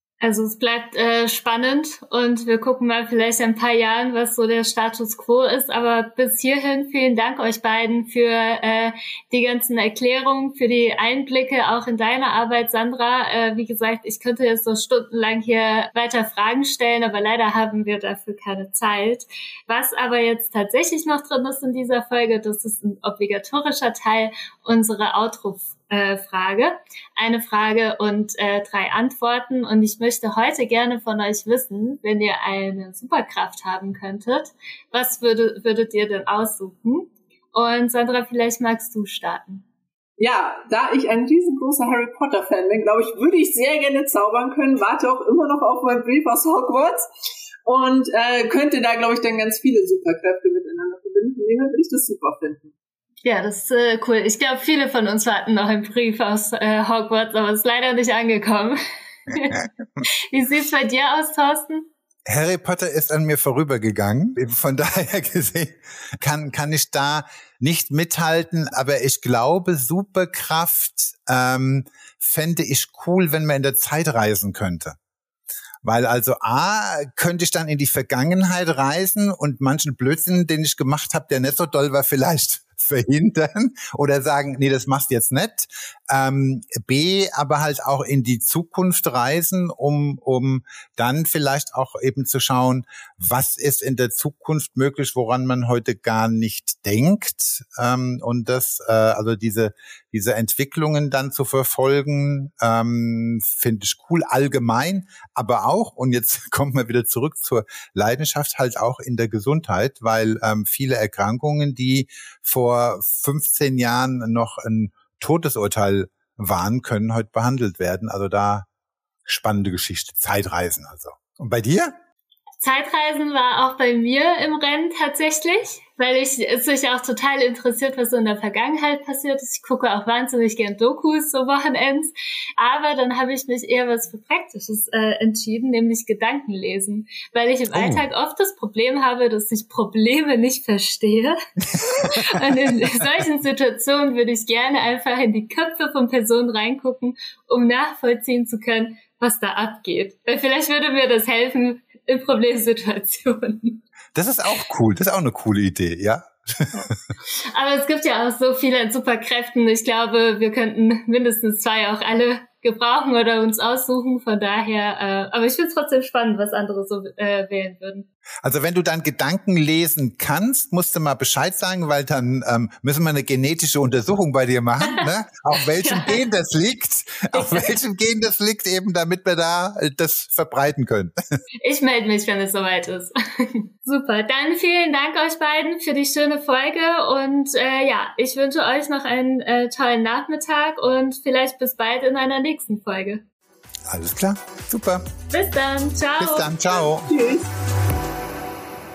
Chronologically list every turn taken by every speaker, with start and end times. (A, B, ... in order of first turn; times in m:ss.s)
0:00.2-0:39.6 A
0:40.2-0:47.0 B
0:47.6-0:52.7 B
0:53.2-0:58.8 A
0:59.3-0:59.6 A
1:00.3-1:01.9 A
1:02.2-1:15.0 C
1:15.8-1:58.7 C
1:59.2-2:01.9 C
2:02.6-2:33.8 A
2:17.7-2:18.0 C
2:22.0-2:22.4 C
2:34.1-2:36.9 C
2:37.5-2:48.1 A
2:48.4-3:01.1 C
2:55.8-2:56.2 A
2:57.3-2:57.7 A
3:01.6-3:13.2 A
3:13.9-3:15.1 C
3:15.3-3:16.5 A
3:16.2-3:17.1 C
3:16.8-3:17.5 B